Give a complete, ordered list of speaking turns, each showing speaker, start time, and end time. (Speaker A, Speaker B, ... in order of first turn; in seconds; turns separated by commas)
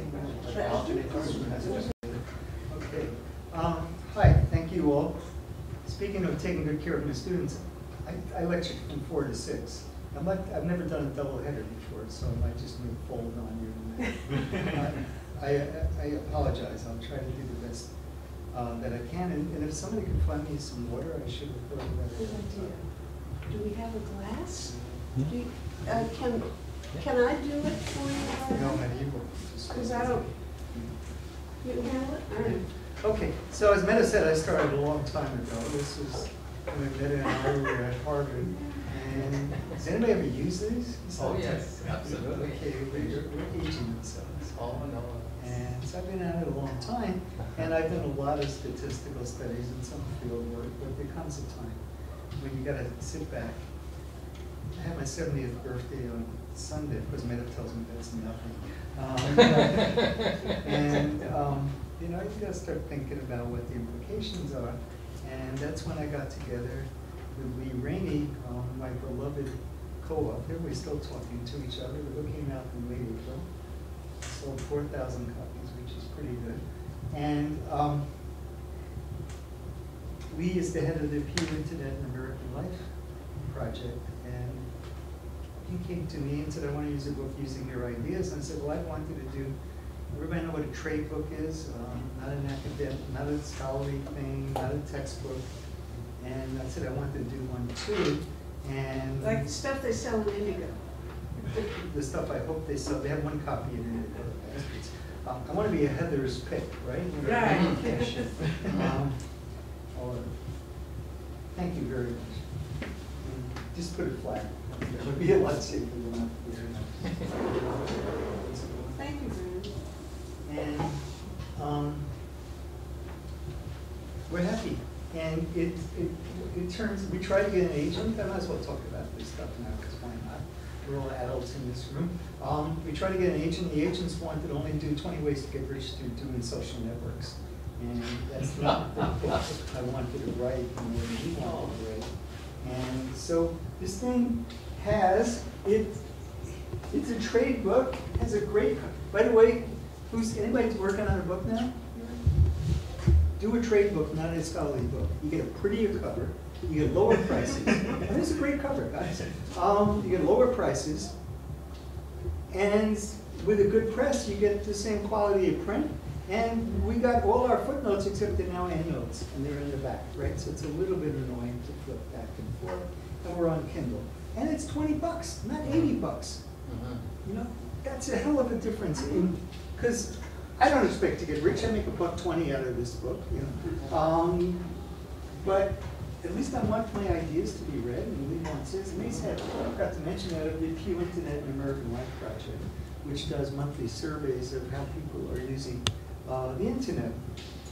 Speaker A: 0.5-1.5, Speaker B: 1.1-5.2, Speaker B: 5.8-17.9, Speaker B: 18.5-22.7, Speaker C: 22.4-22.6, Speaker C: 23.5-28.8, Speaker B: 28.5-30.2, Speaker C: 29.7-30.2, Speaker C: 31.6-32.6, Speaker B: 32.3-44.6, Speaker A: 41.2-43.1, Speaker A: 44.5-45.4, Speaker B: 45.4-51.8, Speaker B: 52.4-53.6, Speaker B: 54.7-73.5, Speaker B: 74.2-76.6, Speaker B: 77.1-78.1, Speaker B: 80.3-82.9, Speaker B: 83.4-84.6, Speaker B: 85.6-89.5, Speaker B: 90.1-95.5, Speaker B: 96.2-99.5, Speaker C: 99.2-100.7, Speaker B: 101.4-109.2, Speaker C: 107.5-107.8, Speaker B: 109.9-110.3, Speaker B: 111.5-112.5, Speaker B: 113.2-119.0, Speaker C: 119.0-119.7, Speaker B: 120.4-121.0, Speaker B: 121.5-122.1, Speaker B: 124.3-142.1, Speaker B: 142.6-146.0, Speaker B: 146.9-151.9, Speaker B: 153.4-161.1, Speaker B: 162.5-176.4, Speaker A: 176.7-177.0, Speaker B: 177.2-184.7, Speaker B: 185.4-197.2